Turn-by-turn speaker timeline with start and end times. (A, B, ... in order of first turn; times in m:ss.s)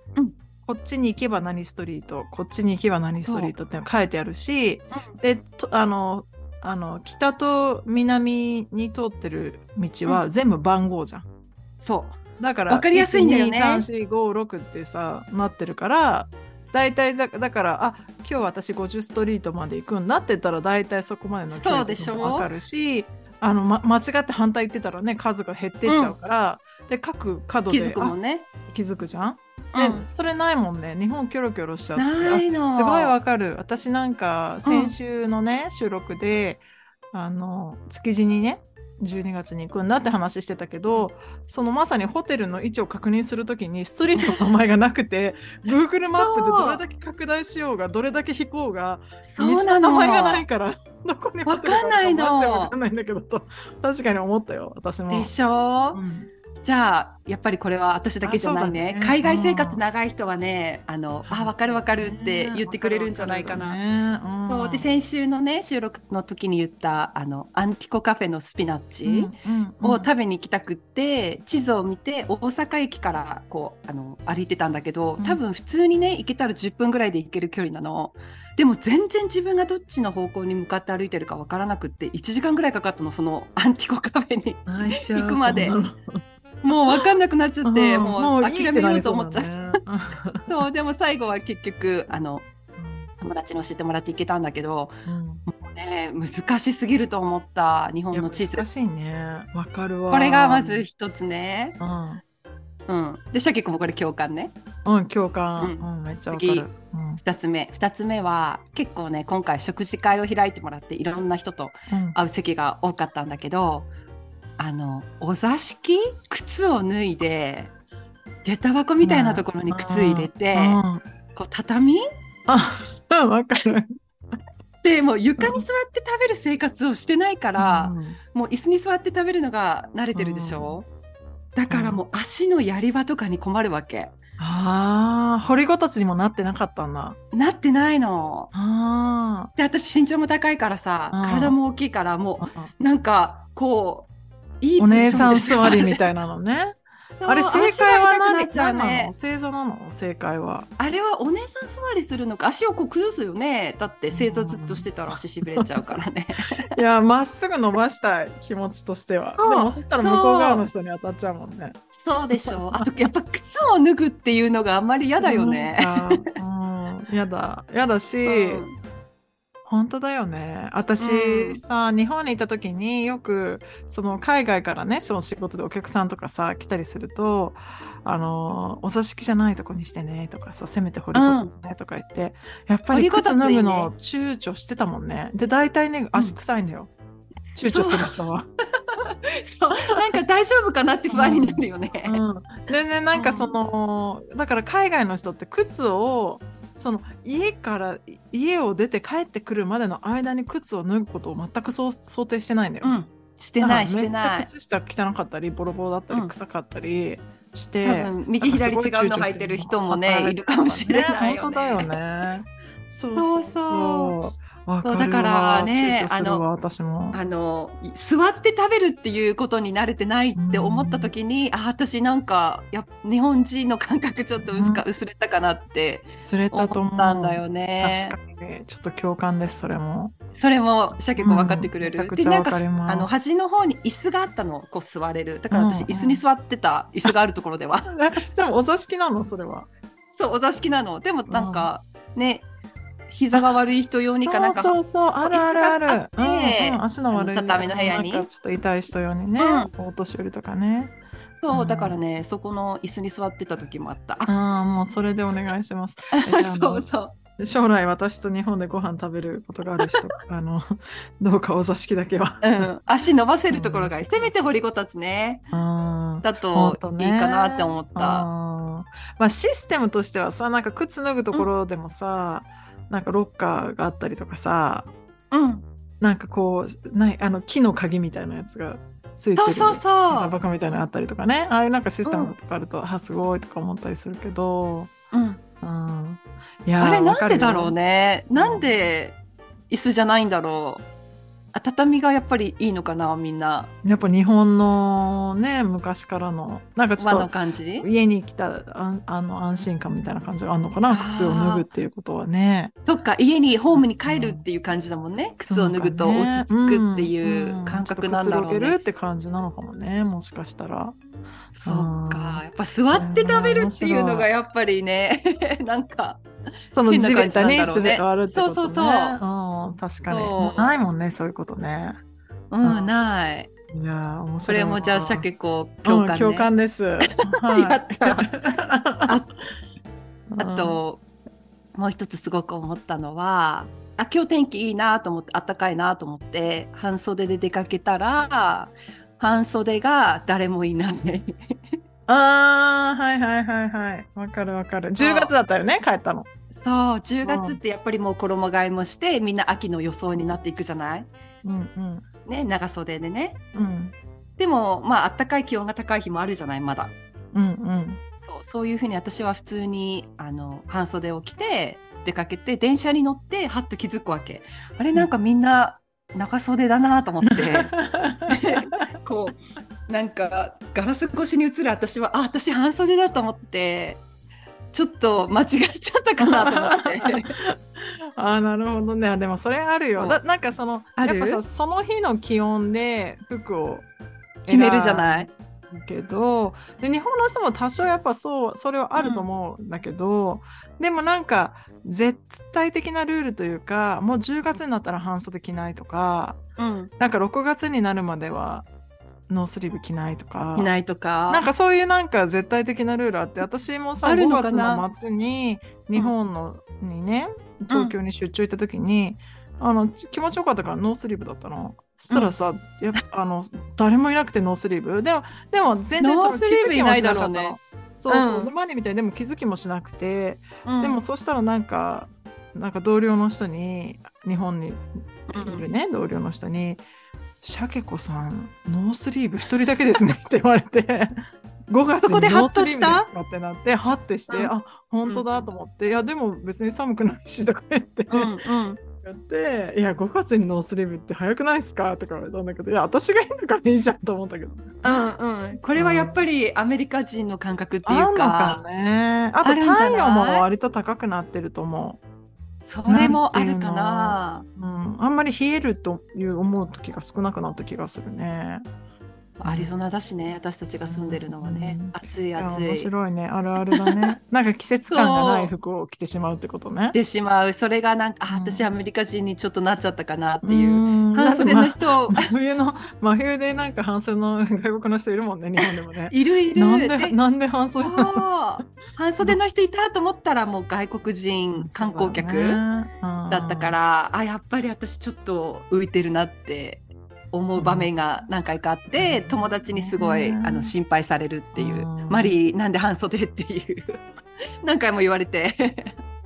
0:00.7-0:11.3 A
0:03.2-0:03.5 B
0:11.8-0:12.2 B
0:12.4-0:55.3 A
0:12.7-0:13.9 B
0:21.5-0:22.5 B
0:25.9-0:26.2 B
0:27.7-0:28.5 B
0:29.7-0:30.1 B
0:32.0-0:33.2 B
0:34.6-0:35.0 B
0:44.2-0:44.5 B
0:46.1-0:46.8 B
0:49.2-0:50.5 B
0:51.5-0:52.8 B
0:55.1-0:56.0 B
0:55.9-0:56.3 A
0:56.6-1:03.8 B
0:58.2-0:59.8 A
1:01.2-1:04.9 A
1:04.5-1:25.8 B
1:09.0-1:10.1 A
1:24.7-1:26.2 A
1:26.6-1:29.7 B
1:27.6-1:30.6 A
1:30.4-1:32.5 B
1:32.8-1:33.1 A
1:33.2-1:34.9 B
1:35.1-1:35.4 A
1:35.5-1:38.7 B
1:38.1-1:40.9 A
1:40.1-1:41.8 B
1:41.8-1:42.2 A
1:42.9-1:44.5 B
1:44.8-1:47.2 A
1:45.6-1:46.7 B
1:47.2-1:53.9 B
1:51.9-1:52.2 A
1:54.6-1:57.7 B
1:58.4-2:00.8 B
1:59.0-2:01.0 A
2:01.3-2:02.0 B
2:02.5-2:03.9 A
2:04.8-2:10.9 B
2:05.4-2:05.6 A
2:07.6-2:08.2 A
2:10.1-2:10.8 A
2:11.6-2:14.2 B
2:11.7-2:12.0 A
2:14.4-2:17.2 A
2:17.3-2:18.5 B
2:18.5-2:19.5 A
2:19.6-2:24.1 B
2:21.1-2:21.6 A
2:22.4-2:22.7 A
2:24.6-2:26.0 B
2:24.8-2:30.7 A
2:27.2-2:29.1 B
2:30.8-2:36.7 B
2:34.1-2:34.9 A
2:35.5-2:35.9 A
2:36.7-2:41.8 A
2:39.4-2:40.6 B
2:41.9-2:46.0 B
2:42.4-2:42.8 A
2:45.2-2:48.6 A
2:48.2-2:48.8 B
2:49.7-3:06.9 A
2:51.0-2:51.6 B
3:01.1-3:01.5 B
3:02.9-3:03.9 B
3:07.6-3:08.4 A
3:07.6-3:08.2 B
3:08.9-3:12.2 B
3:11.1-3:23.0 A
3:13.1-3:13.6 B
3:22.8-3:24.5 B
3:23.6-3:37.2 A
3:26.1-3:26.4 B
3:27.8-3:31.9 B
3:33.2-3:34.2 B
3:34.8-3:36.4 B
3:37.1-3:48.2 B
3:40.4-3:41.1 A
3:44.4-3:44.8 A
3:46.2-3:50.1 A
3:50.4-3:58.0 B
3:51.2-3:53.1 A
3:55.5-3:56.2 A
3:57.9-3:59.7 A
4:00.1-4:02.5 B
4:01.3-4:01.7 A
4:03.1-4:08.3 B
4:04.2-4:11.0 A
4:09.4-4:09.7 B
4:11.4-4:14.3 B
4:11.5-4:12.0 A
4:14.3-4:16.9 A
4:16.1-4:17.2 B
4:17.4-4:22.7 A
4:22.4-4:25.4 B
4:23.5-4:24.3 A
4:25.5-4:34.9 A
4:26.2-4:28.3 B
4:35.3-4:35.6 B
4:36.0-4:44.9 A
4:39.4-4:40.4 B
4:42.0-4:42.4 B
4:45.1-4:45.4 B
4:45.6-4:47.8 A
4:46.8-4:49.2 B
4:48.4-4:48.9 A
4:49.7-4:50.8 B
4:51.5-4:53.7 B
4:53.8-5:02.7 A
4:57.0-4:57.9 B
5:00.9-5:01.7 B
5:02.8-5:08.8 B
5:03.7-5:04.4 A
5:05.4-5:11.0 A
5:11.6-5:16.2 B
5:11.6-5:14.3 A
5:16.7-5:22.0 A
5:16.9-5:19.2 B
5:20.1-5:20.8 B
5:22.5-5:23.5 B
5:22.6-5:22.9 A
5:23.7-5:25.3 A
5:24.4-5:26.5 B
5:25.8-5:29.2 A
5:27.5-5:28.5 B
5:29.0-5:29.3 B
5:30.3-5:30.8 A
5:30.4-5:31.0 B
5:31.8-5:41.6 B
5:42.1-5:46.3 A
5:45.0-5:45.3 B
5:46.5-5:51.1 B
5:47.2-5:47.6 A
5:50.1-5:50.4 A
5:51.4-5:52.1 A
5:52.3-5:53.4 B
5:53.5-5:53.9 A
5:54.4-5:56.9 B
5:57.3-5:58.0 A
5:58.2-6:07.8 B
6:07.3-6:08.7 A
6:08.3-6:14.0 B
6:14.7-6:17.4 B
6:16.2-6:23.9 A
6:20.0-6:20.2 B
6:21.0-6:21.4 B
6:24.4-6:36.4 A
6:24.5-6:25.3 B
6:29.0-6:29.3 B
6:36.6-6:36.9 B
6:37.0-6:38.7 A
6:39.3-6:40.7 A
6:40.6-6:41.5 B
6:41.3-7:06.8 A
6:44.0-6:44.8 B
6:47.7-6:48.0 B
6:52.1-6:52.4 B
6:56.0-6:58.5 B
7:00.6-7:01.0 B
7:05.3-7:05.7 B
7:07.4-7:18.4 A
7:12.0-7:13.1 B
7:15.1-7:15.5 B
7:18.1-7:18.8 B
7:19.0-7:25.0 A
7:24.8-7:28.6 B
7:25.7-7:26.2 A
7:27.8-7:32.0 A
7:29.4-7:30.5 B
7:32.6-7:34.5 B
7:32.9-7:38.7 A
7:39.4-7:42.9 B
7:39.4-7:39.7 A
7:40.8-7:47.0 A
7:43.7-7:44.0 B
7:44.9-7:45.5 B
7:46.9-7:52.3 B
7:48.3-7:48.7 A
7:50.4-7:58.6 A
7:56.1-7:57.2 B
7:57.8-8:02.6 B
8:01.6-8:03.8 A
8:03.3-8:14.0 B
8:07.6-8:07.9 A
8:08.9-8:10.7 A
8:11.6-8:12.4 A
8:14.6-8:15.9 B